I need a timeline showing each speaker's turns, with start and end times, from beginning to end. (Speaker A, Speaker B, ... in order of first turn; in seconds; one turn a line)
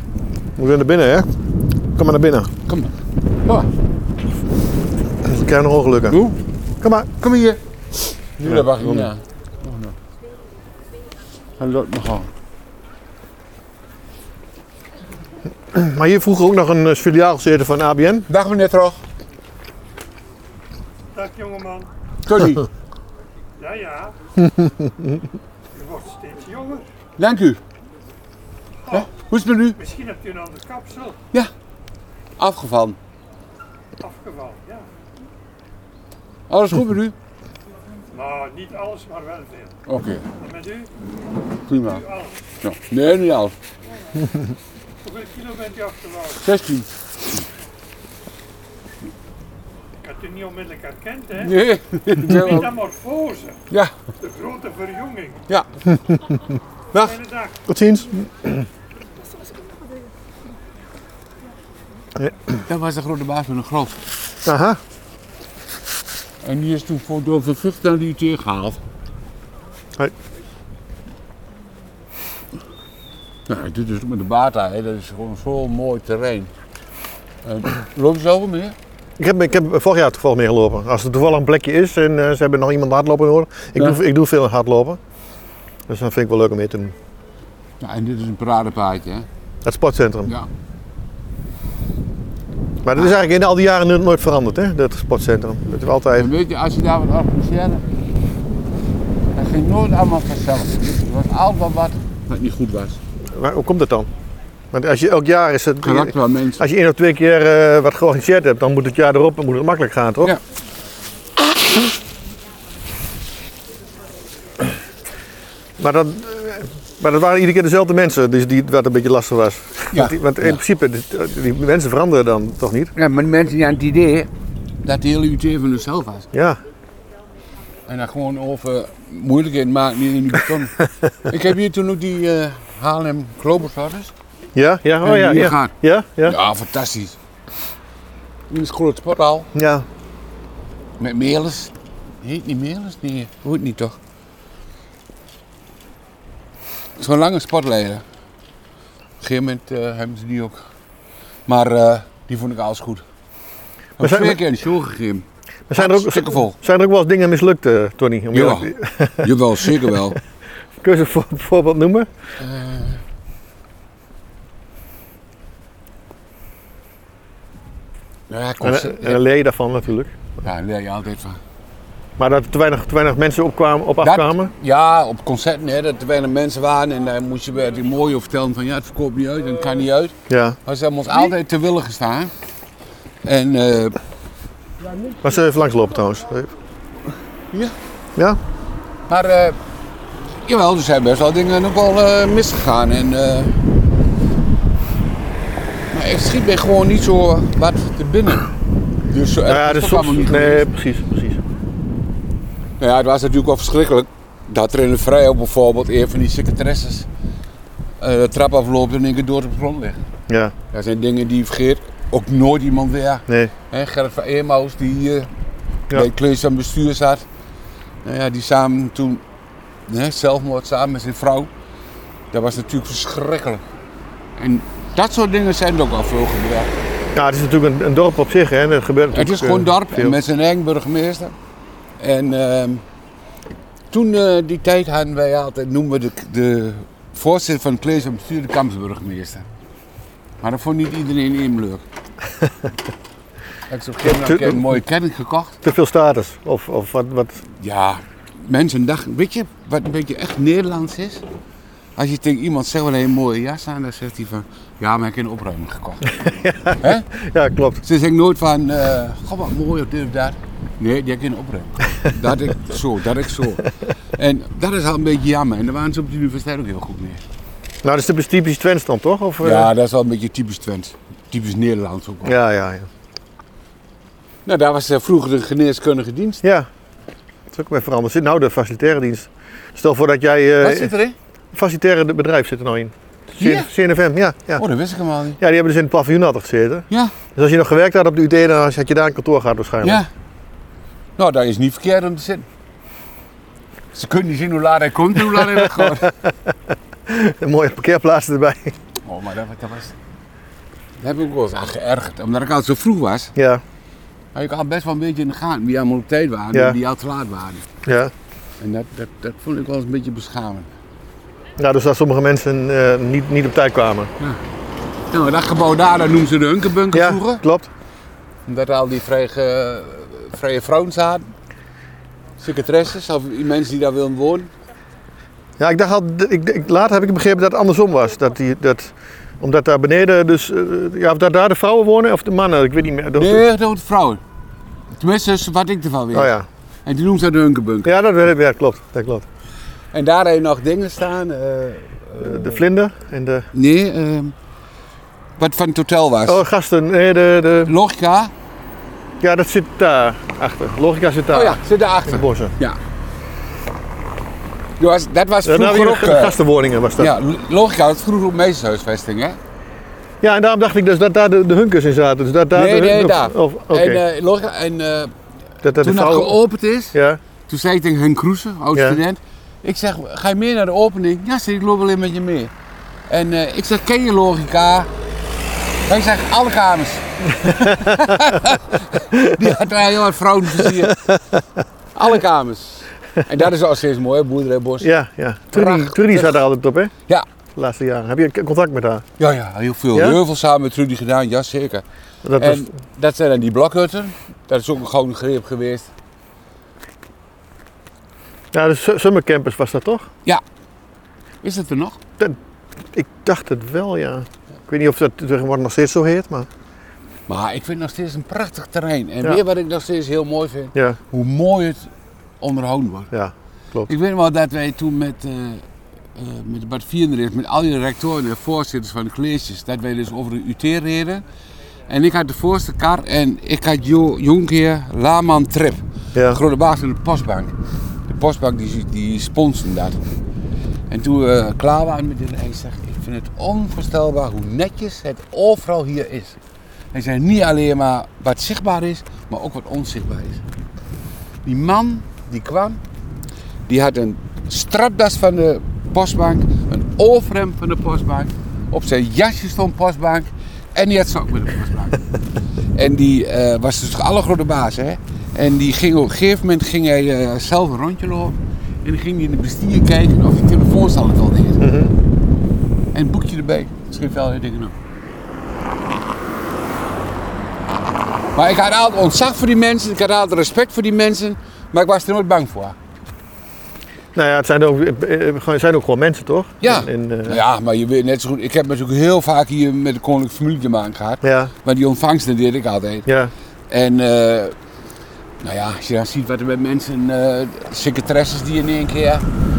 Speaker A: 0.6-1.3
Speaker A: 1.9-2.5
Speaker B: 2.7-3.7
Speaker A: 5.2-6.2
Speaker B: 6.1-6.4
Speaker A: 6.8-7.1
Speaker B: 7.2-9.9
Speaker A: 8.4-9.1
Speaker B: 11.6-12.3
Speaker A: 15.7-18.3
Speaker B: 18.3-19.0
Speaker C: 21.1-21.9
Speaker B: 22.2-22.7
Speaker C: 23.6-24.1
Speaker A: 24.4-25.2
Speaker C: 25.7-26.8
Speaker B: 27.2-27.6
Speaker B: 28.9-29.8
Speaker C: 29.8-31.2
Speaker B: 32.4-33.0
Speaker C: 34.0-34.9
Speaker B: 36.5-37.1
Speaker C: 38.1-39.8
Speaker B: 39.9-40.2
Speaker C: 40.4-40.9
Speaker B: 41.7-42.0
Speaker C: 41.8-42.4
Speaker B: 42.6-43.5
Speaker C: 45.0-46.4
Speaker B: 46.4-46.9
Speaker C: 50.0-51.5
Speaker B: 51.4-52.7
Speaker C: 52.1-53.6
Speaker C: 54.2-55.4
Speaker C: 57.0-57.6
Speaker A: 57.7-58.6
Speaker B: 62.6-64.1
Speaker A: 64.4-64.8
Speaker B: 66.4-68.8
Speaker B: 73.5-76.5
Speaker B: 77.4-78.8
Speaker A: 79.2-85.0
Speaker A: 85.9-86.9
Speaker B: 87.8-89.3
Speaker A: 89.6-90.3
Speaker A: 92.8-96.3
Speaker B: 96.1-97.8
Speaker B: 99.3-103.0
Speaker A: 103.3-104.1
Speaker A: 104.7-110.3
Speaker B: 105.8-106.6
Speaker A: 115.8-122.9
Speaker B: 119.9-120.6
Speaker B: 123.0-124.3
Speaker B: 124.8-126.3
Speaker A: 126.3-126.6
Speaker B: 127.9-134.1
Speaker A: 134.5-136.3
Speaker B: 135.0-137.2
Speaker B: 138.5-139.5
Speaker A: 139.5-139.8
Speaker B: 141.0-144.0
Speaker B: 147.0-148.0
Speaker B: 149.2-150.6
Speaker B: 151.5-153.0
Speaker B: 154.0-156.5
Speaker A: 154.0-154.4
Speaker A: 155.7-159.9
Speaker B: 158.3-160.2
Speaker A: 160.8-162.1
Speaker B: 162.4-163.0
Speaker B: 168.3-169.2
Speaker A: 168.6-170.1
Speaker B: 170.4-171.4
Speaker A: 172.2-174.5
Speaker B: 174.0-182.3
Speaker A: 180.3-180.6
Speaker B: 183.2-184.0
Speaker A: 185.2-186.5
Speaker B: 189.1-189.6
Speaker B: 190.4-193.6
Speaker B: 195.9-198.5
Speaker B: 199.1-200.7
Speaker A: 199.4-201.4
Speaker B: 202.8-207.1
Speaker B: 208.0-210.0
Speaker A: 210.3-210.5
Speaker B: 210.7-215.3
Speaker B: 215.9-217.2
Speaker B: 218.0-219.2
Speaker B: 219.9-221.5
Speaker B: 222.3-223.6
Speaker B: 224.4-226.7
Speaker A: 227.1-230.2
Speaker B: 229.1-231.3
Speaker B: 232.0-232.8
Speaker B: 233.9-239.5
Speaker B: 240.4-241.8
Speaker B: 243.7-245.6
Speaker A: 244.1-244.6
Speaker A: 245.6-247.4
Speaker B: 247.5-251.2
Speaker B: 251.9-257.0
Speaker A: 256.2-257.8
Speaker B: 257.8-267.2
Speaker A: 267.8-269.7
Speaker B: 269.4-272.4
Speaker A: 272.2-272.9
Speaker B: 274.4-276.4
Speaker A: 276.4-276.7
Speaker A: 277.5-280.9
Speaker B: 280.6-281.1
Speaker A: 281.5-284.6
Speaker B: 283.4-283.7
Speaker B: 284.6-285.4
Speaker A: 285.4-290.0
Speaker B: 289.8-290.1
Speaker B: 291.2-292.5
Speaker B: 293.9-296.1
Speaker A: 297.1-298.7
Speaker B: 299.0-299.9
Speaker B: 301.0-303.3
Speaker A: 303.4-303.6
Speaker B: 304.3-307.7
Speaker A: 307.8-308.1
Speaker B: 308.6-310.7
Speaker A: 311.6-314.1
Speaker B: 315.1-317.4
Speaker A: 316.9-317.7
Speaker B: 318.4-321.3
Speaker B: 322.4-324.5
Speaker A: 325.6-333.4
Speaker B: 333.1-334.2
Speaker B: 334.9-337.9
Speaker A: 336.1-336.4
Speaker A: 337.8-339.2
Speaker B: 339.9-342.6
Speaker A: 342.2-343.5
Speaker B: 343.5-344.3
Speaker B: 345.4-346.4
Speaker A: 346.2-347.7
Speaker B: 347.6-348.3
Speaker A: 349.2-352.5
Speaker B: 351.3-352.8
Speaker B: 354.8-356.4
Speaker A: 355.4-357.1
Speaker B: 357.0-359.4
Speaker A: 360.2-364.0
Speaker B: 362.5-365.1
Speaker A: 365.6-366.4
Speaker B: 365.8-372.5
Speaker A: 366.9-367.2
Speaker B: 373.1-374.9
Speaker B: 375.9-381.1
Speaker A: 379.1-379.5
Speaker A: 380.8-381.1
Speaker B: 381.9-384.9
Speaker A: 384.8-386.9
Speaker B: 385.5-386.4
Speaker A: 387.6-389.1
Speaker B: 389.2-391.8
Speaker A: 389.9-390.2
Speaker A: 392.2-392.7
Speaker B: 392.4-395.9
Speaker A: 398.5-400.1
Speaker B: 401.4-402.0
Speaker A: 402.9-406.5
Speaker B: 407.3-411.9
Speaker B: 412.4-413.1
Speaker A: 413.1-413.9
Speaker B: 413.9-421.2
Speaker B: 421.9-427.5
Speaker A: 426.1-426.4
Speaker B: 428.1-430.0
Speaker B: 430.9-436.4
Speaker B: 436.9-440.4
Speaker B: 441.4-442.8
Speaker B: 443.7-452.0
Speaker B: 452.7-461.6
Speaker A: 461.6-461.9
Speaker B: 462.9-464.7
Speaker B: 468.3-472.8
Speaker A: 474.1-477.4
Speaker B: 476.6-483.1
Speaker A: 481.2-481.5
Speaker A: 483.1-483.3
Speaker B: 483.7-484.5
Speaker B: 485.4-489.2